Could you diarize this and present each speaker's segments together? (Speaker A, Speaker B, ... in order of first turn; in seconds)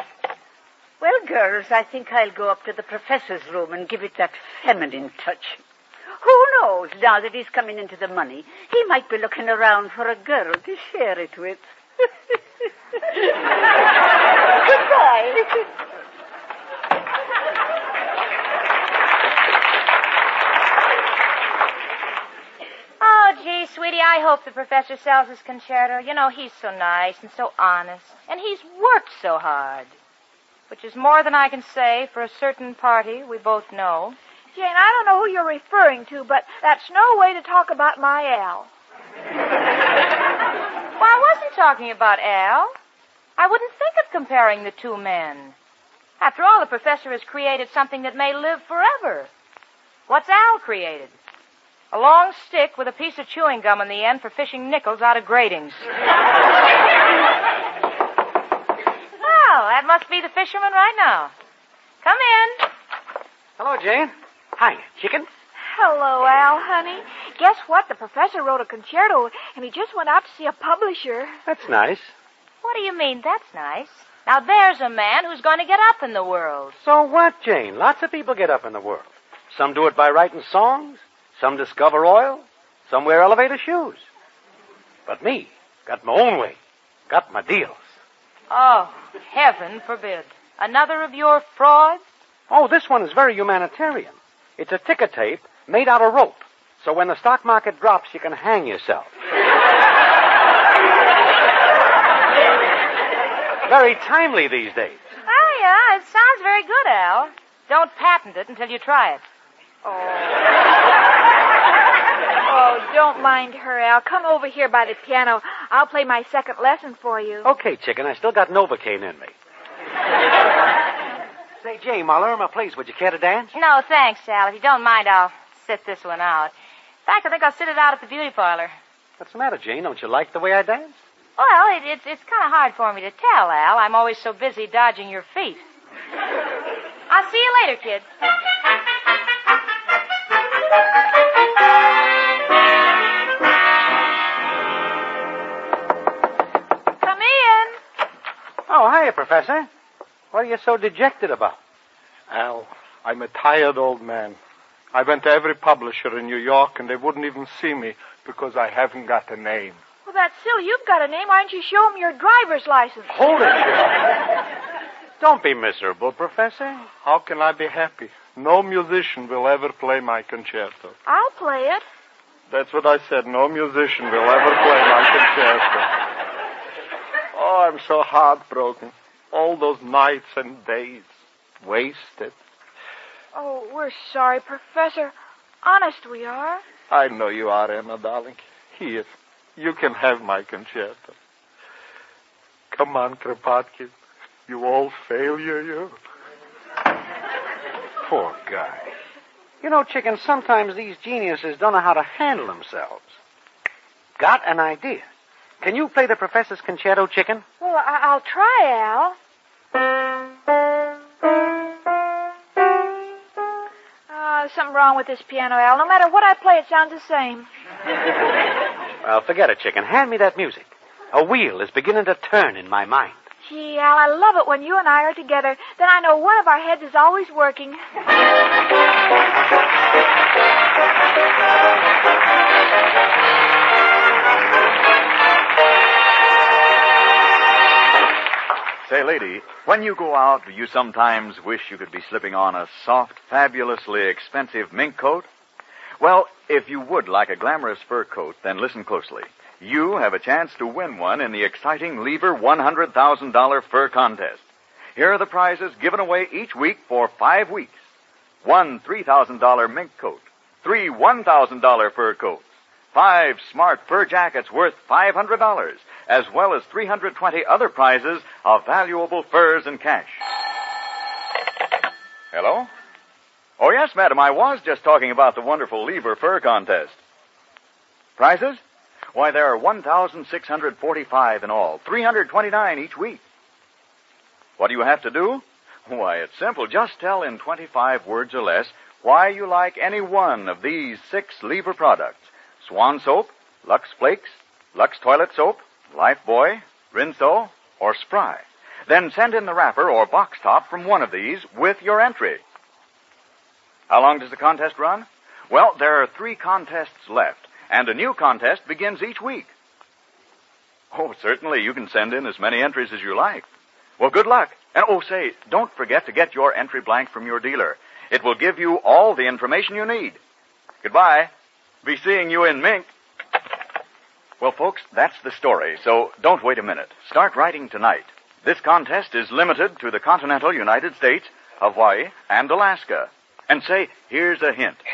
Speaker A: 1.0-5.6, 6.2-11.7, 14.6-15.7
Speaker B: 23.0-29.9, 30.7-34.2, 41.0-42.7, 43.4-45.5, 46.2-49.3, 50.1-51.1, 51.9-55.8, 59.2-61.3, 62.0-62.6, 72.6-76.8, 88.5-92.0, 105.2-109.2, 123.5-126.5, 127.0-128.7, 131.4-135.6, 137.1-138.1, 147.0-147.7
Speaker C: 34.5-38.7, 65.7-71.4, 109.8-110.3, 112.5-117.5, 160.1-163.1, 171.0-171.8, 183.3-186.6, 207.6-209.2, 214.1-217.5, 223.4-227.8
Speaker D: 63.6-65.3, 71.5-72.1, 76.8-84.0, 85.1-86.6, 87.1-87.9, 92.5-99.1, 103.7-105.0, 117.4-119.3, 121.6-123.5, 129.2-131.0, 148.7-149.7, 150.3-151.6, 163.1-163.9, 165.2-166.9, 198.0-198.9, 199.6-203.1, 204.2-205.1, 205.6-207.4, 219.0-223.2
Speaker E: 152.3-154.4, 154.9-159.8, 167.0-170.9, 172.5-175.9, 177.3-182.3, 186.9-191.1, 192.7-193.9, 194.5-196.0
Speaker F: 238.8-245.3, 246.0-254.4, 254.9-257.8, 258.4-270.2, 272.3-272.7, 273.6-277.0, 278.2-278.6, 279.1-283.2, 284.6-302.4, 303.9-309.5, 310.9-313.4, 314.0-320.2, 320.8-321.3, 321.8-322.9, 324.4-334.8